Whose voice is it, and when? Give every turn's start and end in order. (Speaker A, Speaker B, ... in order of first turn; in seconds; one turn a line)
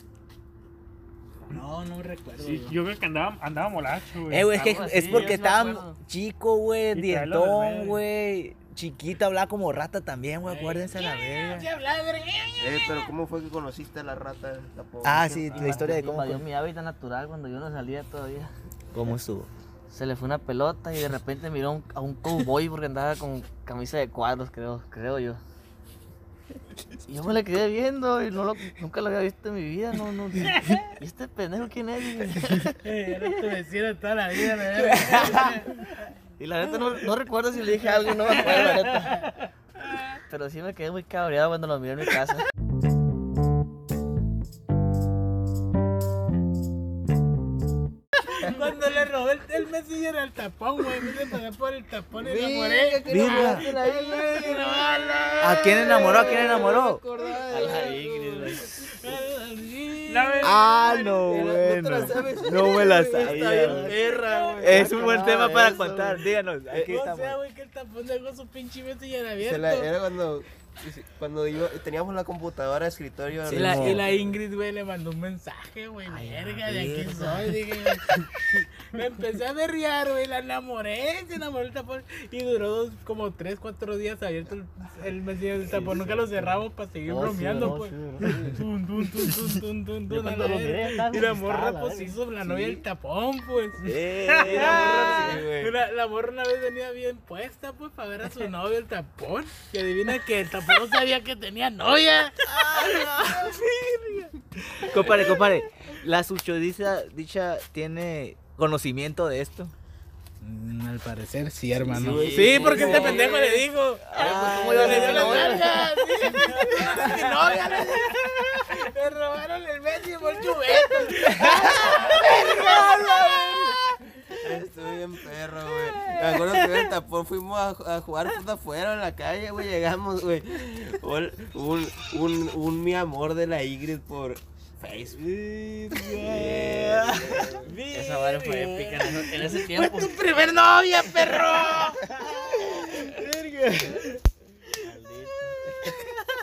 Speaker A: 1.5-2.8
Speaker B: 2.4-5.3
Speaker C: 4.3-11.7
Speaker D: 4.6-6.0
Speaker B: 6.9-8.0
Speaker A: 10.4-13.1
Speaker E: 12.6-15.9
Speaker C: 15.0-16.4
Speaker D: 15.5-18.5
Speaker C: 18.9-19.5
Speaker D: 19.9-25.4
Speaker D: 27.1-32.8
Speaker A: 32.8-35.8
Speaker D: 35.1-35.5
Speaker D: 36.4-39.3
Speaker D: 40.3-42.5
Speaker A: 48.4-56.5
Speaker E: 52.1-54.9
Speaker C: 53.1-53.7
Speaker C: 55.4-57.0
Speaker E: 55.5-59.2
Speaker A: 57.2-57.9
Speaker D: 57.5-58.7
Speaker A: 58.6-60.6
Speaker B: 60.1-61.5
Speaker C: 60.4-64.0
Speaker E: 61.2-67.0
Speaker D: 63.3-63.9
Speaker A: 63.9-65.0
Speaker C: 64.6-67.4
Speaker A: 66.8-69.9
Speaker E: 69.4-74.3
Speaker C: 73.5-74.1
Speaker A: 73.5-78.2
Speaker C: 76.1-77.4
Speaker A: 78.8-102.4
Speaker D: 87.1-88.6
Speaker E: 88.3-88.5
Speaker D: 90.1-92.2
Speaker E: 92.4-92.8
Speaker C: 93.8-95.3
Speaker E: 94.4-95.7
Speaker C: 102.5-109.7
Speaker A: 110.4-123.8
Speaker E: 111.8-113.6
Speaker D: 111.9-113.4
Speaker C: 114.1-115.5
Speaker D: 114.2-118.1
Speaker E: 114.2-115.6
Speaker E: 124.3-135.3
Speaker C: 135.1-137.5
Speaker E: 135.9-137.8
Speaker A: 137.6-142.1
Speaker D: 137.9-140.2
Speaker C: 143.0-144.0
Speaker D: 144.8-145.6